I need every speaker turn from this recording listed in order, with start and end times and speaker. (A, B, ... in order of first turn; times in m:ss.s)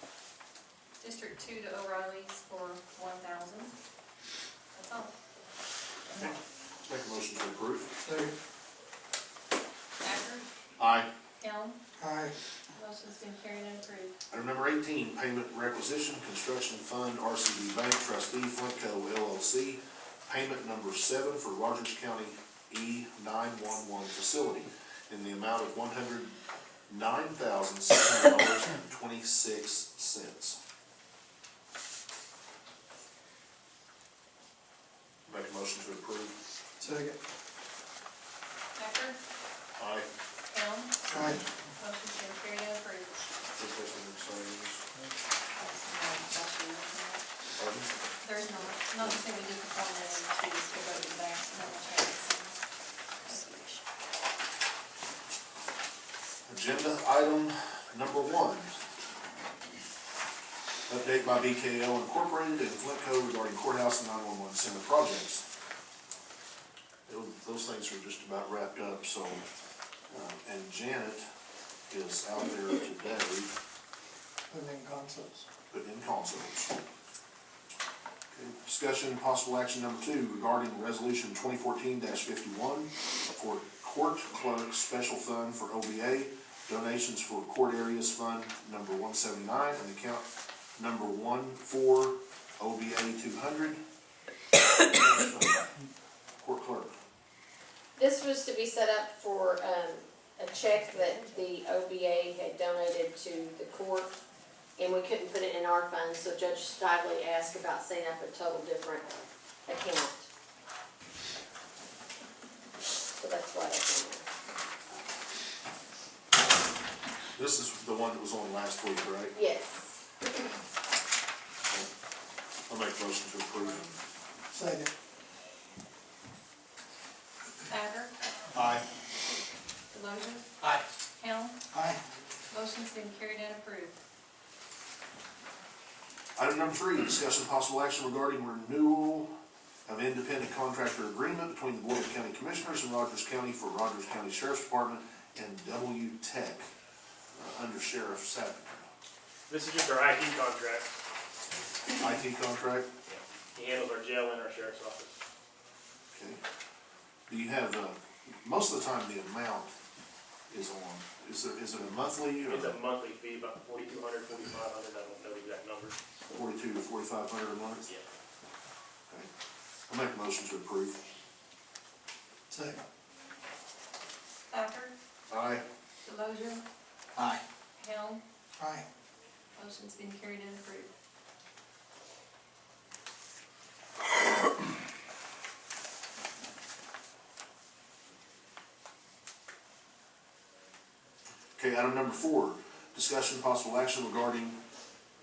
0:01.0-0:03.7 A
0:04.7-0:05.1 A
0:06.2-0:07.9 B
0:08.0-0:08.3 C
0:10.0-0:10.5 A
0:10.8-0:11.1 B
0:11.4-0:11.7 A
0:12.0-0:12.3 C
0:12.7-0:14.1 A
0:14.3-0:26.3 B
0:26.9-0:30.6 B
0:35.2-0:36.4 B
0:36.8-0:37.1 C
0:38.8-0:39.2 A
0:39.8-0:40.1 B
0:40.5-0:41.2 A
0:41.1-0:41.4 C
0:41.8-0:43.3 A
0:43.6-0:44.8 B
0:45.5-0:47.2 A
0:47.6-0:47.9 B
0:48.2-0:52.6 A
0:53.2-0:53.8 A
0:56.4-0:58.8 B
1:00.9-1:05.4 B
1:07.1-1:09.4 B
1:10.1-1:11.2 B
1:11.9-1:13.5 B
1:14.5-1:15.4 C
1:15.7-1:16.7 B
1:18.3-1:30.2 B
1:30.8-1:33.8 B
1:35.0-1:35.6 B
1:36.4-1:36.9 B
1:38.0-1:44.1 D
1:44.8-1:50.3 D
1:53.2-1:54.2 D
1:57.3-1:59.4 B
1:59.4-1:59.9 D
2:02.7-2:03.9 B
2:04.5-2:04.9 C
2:07.7-2:08.1 A
2:08.5-2:08.8 B
2:09.9-2:10.4 A
2:11.2-2:11.5 A
2:11.7-2:12.0 C
2:12.5-2:14.0 A
2:16.4-2:19.3 B
2:19.8-2:26.7 B
2:27.3-2:28.9 B
2:29.5-2:30.9 E
2:32.0-2:32.9 B
2:33.1-2:35.1 E
2:36.1-2:36.4 B
2:37.3-2:39.8 B
2:40.5-2:42.7 B
2:42.4-2:46.0 E
2:46.3-2:47.8 B
2:49.9-2:51.0 B
2:52.5-2:52.8 C
2:54.5-2:54.9 A
2:55.3-2:55.6 B
2:56.0-2:56.6 A
2:57.8-2:58.2 A
2:58.6-2:58.8 C
2:59.6-3:00.9 A
3:11.6-3:14.6 B